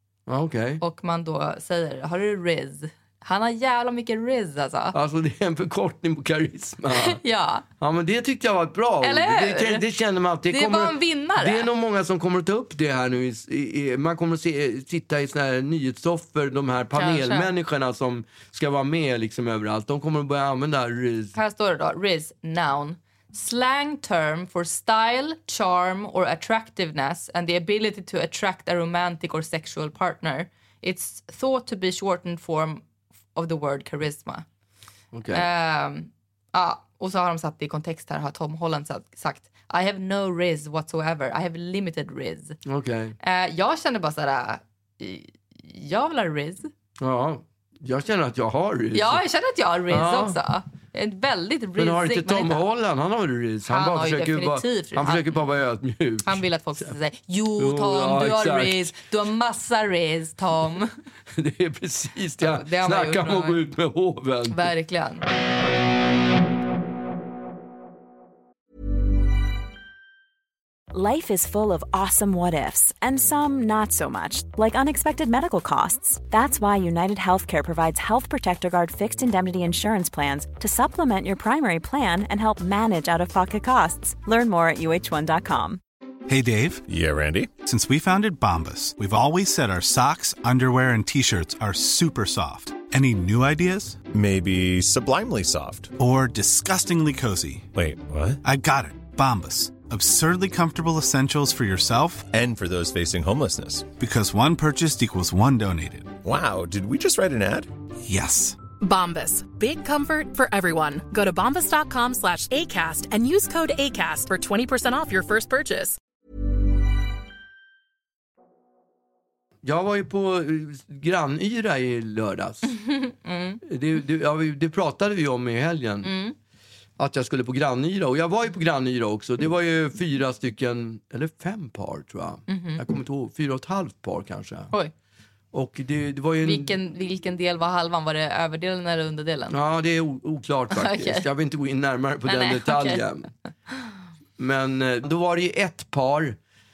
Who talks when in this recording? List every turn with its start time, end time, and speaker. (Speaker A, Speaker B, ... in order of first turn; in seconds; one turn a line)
Speaker A: 0.3-0.8
Speaker B: 0.8-5.0
Speaker A: 4.9-7.2
Speaker B: 6.9-7.6
Speaker A: 7.8-21.3
Speaker B: 9.0-9.8
Speaker B: 10.5-11.7
Speaker B: 16.9-17.5
Speaker B: 21.3-32.8
Speaker B: 33.3-34.5
Speaker A: 35.1-35.5
Speaker B: 35.3-42.6
Speaker A: 42.6-43.1
Speaker B: 43.2-46.7
Speaker A: 47.0-49.2
Speaker B: 48.9-52.6
Speaker A: 49.9-50.4
Speaker A: 51.8-56.9
Speaker B: 53.7-55.4
Speaker B: 56.2-60.9
Speaker A: 57.6-58.9
Speaker A: 61.3-64.7
Speaker B: 62.4-63.6
Speaker B: 64.5-65.2
Speaker C: 70.9-85.8
Speaker D: 86.3-86.8
Speaker E: 86.9-87.5
Speaker D: 87.6-94.0
Speaker E: 94.1-95.9
Speaker D: 96.0-97.7
Speaker E: 97.7-98.4
Speaker D: 98.4-102.3
Speaker E: 102.3-103.9
Speaker D: 104.0-106.2
Speaker E: 106.2-107.7
Speaker D: 108.0-108.6
Speaker F: 108.8-116.0
Speaker A: 119.6-122.7
Speaker B: 122.7-123.6
Speaker A: 123.6-126.1
Speaker B: 126.0-126.3
Speaker A: 127.0-134.7
Speaker B: 132.5-132.8
Speaker A: 135.5-136.8
Speaker B: 136.4-139.6
Speaker A: 139.5-143.3
Speaker B: 140.7-141.3
Speaker B: 142.2-143.0
Speaker A: 144.4-146.4